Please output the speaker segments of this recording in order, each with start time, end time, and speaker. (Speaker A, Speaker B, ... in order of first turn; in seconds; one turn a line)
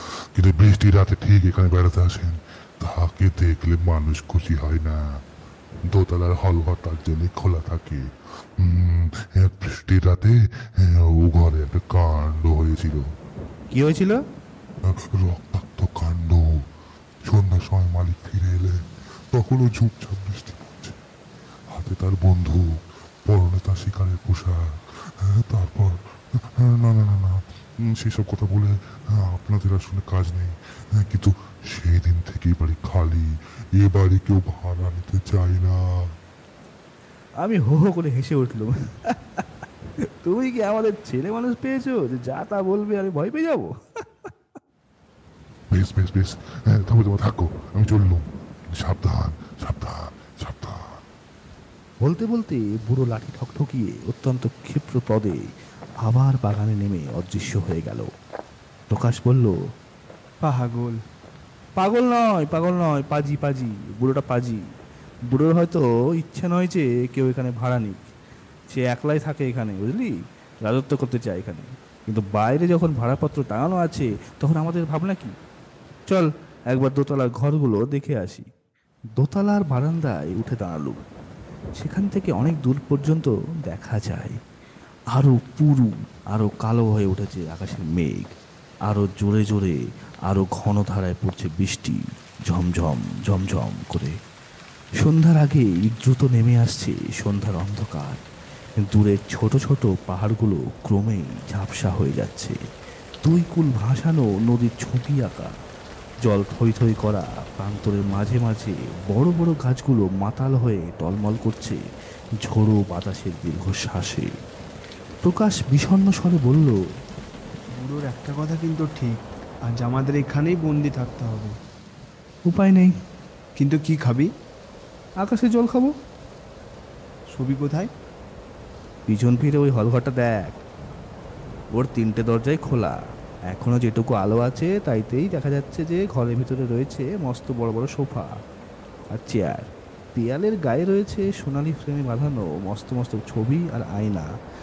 Speaker A: 0.3-5.0
Speaker A: 5.9-8.0
Speaker A: 8.6-13.0
Speaker B: 13.7-14.2
Speaker A: 14.9-16.4
Speaker A: 17.2-18.7
Speaker A: 19.3-20.9
Speaker A: 21.7-22.6
Speaker A: 23.2-24.6
Speaker A: 25.2-25.9
Speaker A: 26.6-27.4
Speaker A: 27.9-35.8
Speaker B: 37.4-39.4
Speaker B: 40.2-43.7
Speaker A: 45.7-48.2
Speaker A: 48.7-50.8
Speaker B: 52.0-55.4
Speaker B: 56.0-58.1
Speaker B: 58.9-59.5
Speaker C: 60.4-61.0
Speaker B: 61.8-64.6
Speaker B: 65.3-68.0
Speaker B: 68.7-70.1
Speaker B: 70.7-75.3
Speaker B: 76.1-78.4
Speaker B: 79.2-81.0
Speaker B: 81.8-84.3
Speaker B: 85.1-88.3
Speaker B: 88.9-89.8
Speaker B: 90.3-92.0
Speaker B: 92.5-94.1
Speaker B: 95.0-98.2
Speaker B: 98.9-102.5
Speaker B: 103.2-105.5
Speaker B: 106.3-111.8
Speaker B: 112.4-114.3
Speaker B: 115.2-116.8
Speaker C: 117.7-121.5
Speaker B: 122.5-122.9
Speaker C: 123.6-124.3
Speaker B: 125.2-125.9
Speaker C: 127.3-127.9
Speaker B: 129.1-130.6
Speaker B: 131.8-132.9
Speaker B: 133.5-138.3
Speaker B: 139.1-144.3